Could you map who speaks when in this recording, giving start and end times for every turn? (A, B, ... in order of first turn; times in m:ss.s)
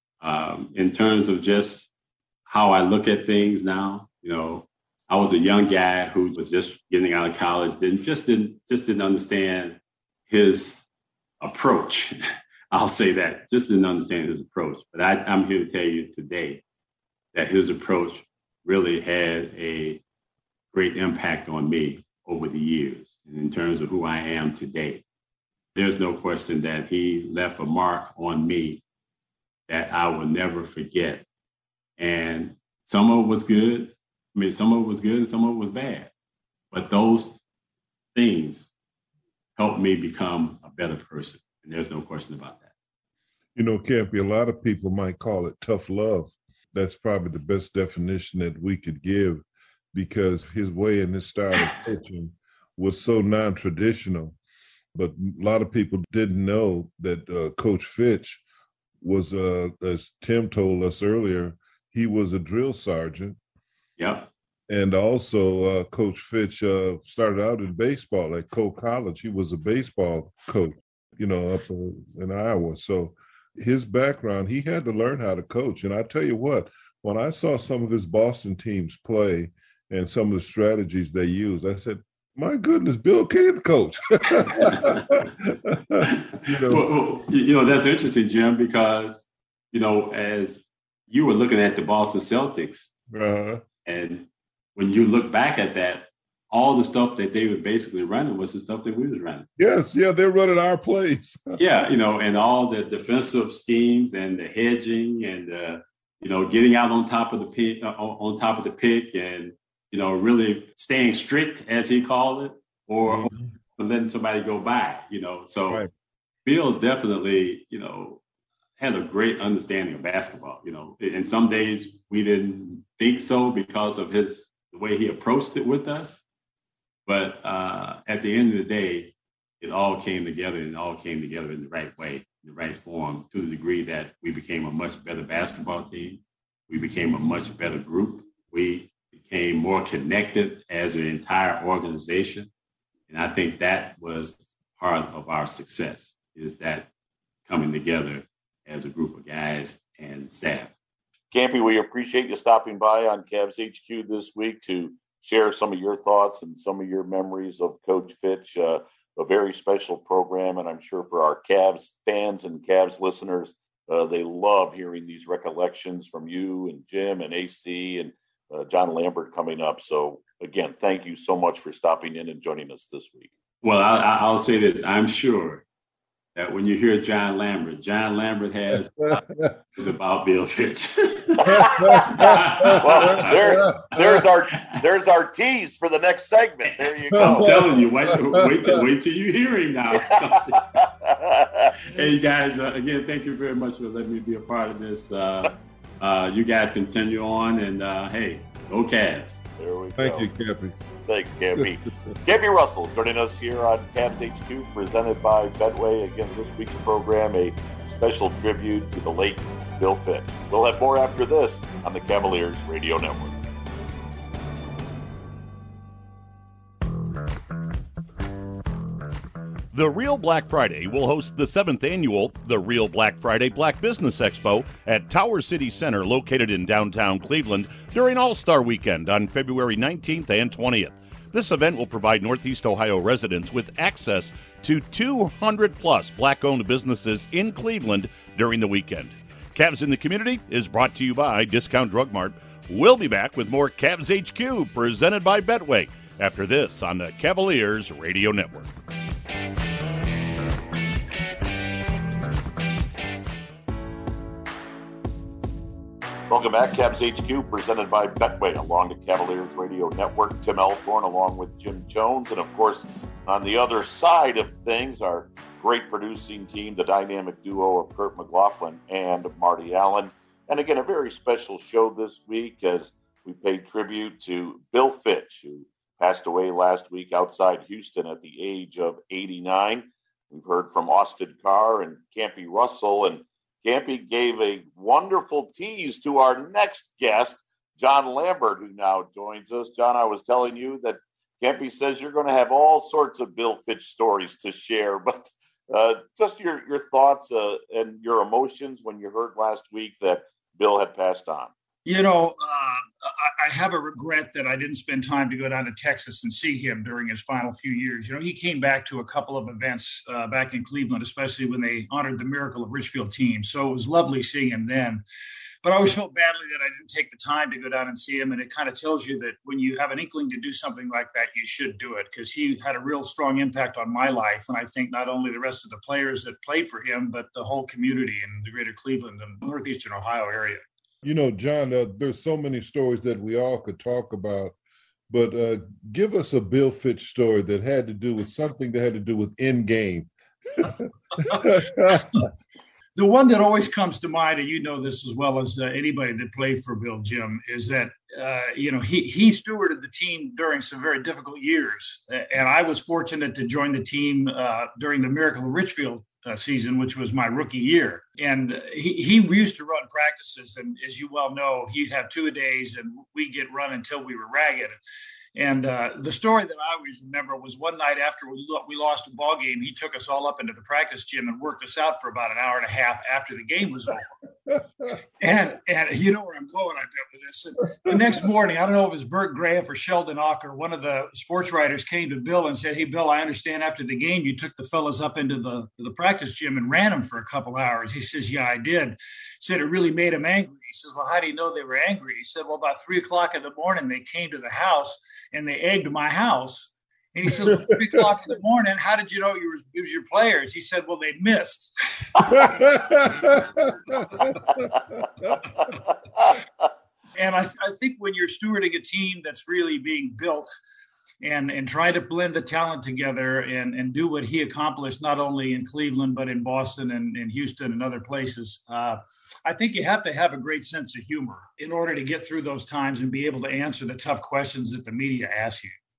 0:00.2-0:01.9 A
0:02.5-0:10.8 A
0:11.4-0:12.2 A
0:12.7-0:16.6 A
0:17.3-0:20.0 A
0:20.7-0:25.0 A
0:25.8-0:28.8 A
0:29.7-0:31.2 A
0:32.0-0:36.1 A
0:36.7-0:37.4 A
0:38.2-0:38.7 A
0:39.6-0:42.7 A
0:43.6-0:54.4 B
0:54.9-0:58.4 B
0:59.0-1:03.4 B
1:04.0-1:04.3 A
1:04.7-1:26.8 B
1:26.4-1:29.2 A
1:29.7-1:32.9 A
1:33.1-1:33.6 B
1:33.8-1:39.5 A
1:39.6-1:41.6 B
1:41.6-1:55.8 A
1:53.0-1:53.4 B
1:56.4-1:58.2 A
1:58.8-2:06.2 A
2:07.1-2:22.5 A
2:23.1-2:26.9 A
2:27.5-2:30.7 A
2:31.3-2:53.3 C
2:53.6-2:55.6 A
2:56.4-3:03.6 A
3:01.7-3:03.8 B
3:02.8-3:07.5 C
3:07.1-3:10.7 A
3:07.2-3:08.7 B
3:11.0-3:11.6 C
3:11.9-3:19.4 A
3:19.6-3:20.3 C
3:20.0-3:20.8 B
3:21.1-3:33.4 C
3:39.7-4:08.8 D
4:16.3-5:01.5 C
5:01.8-5:15.0 E
5:15.6-5:30.6 E
5:31.0-5:34.6 B
5:35.1-5:42.2 B
5:41.3-5:42.3 E
5:43.0-6:04.8 E
6:05.4-6:14.1 E
6:15.2-6:42.7 E
6:37.4-6:38.0 B
6:42.3-6:45.3 B
6:47.2-6:50.5 E
6:51.2-7:05.8 E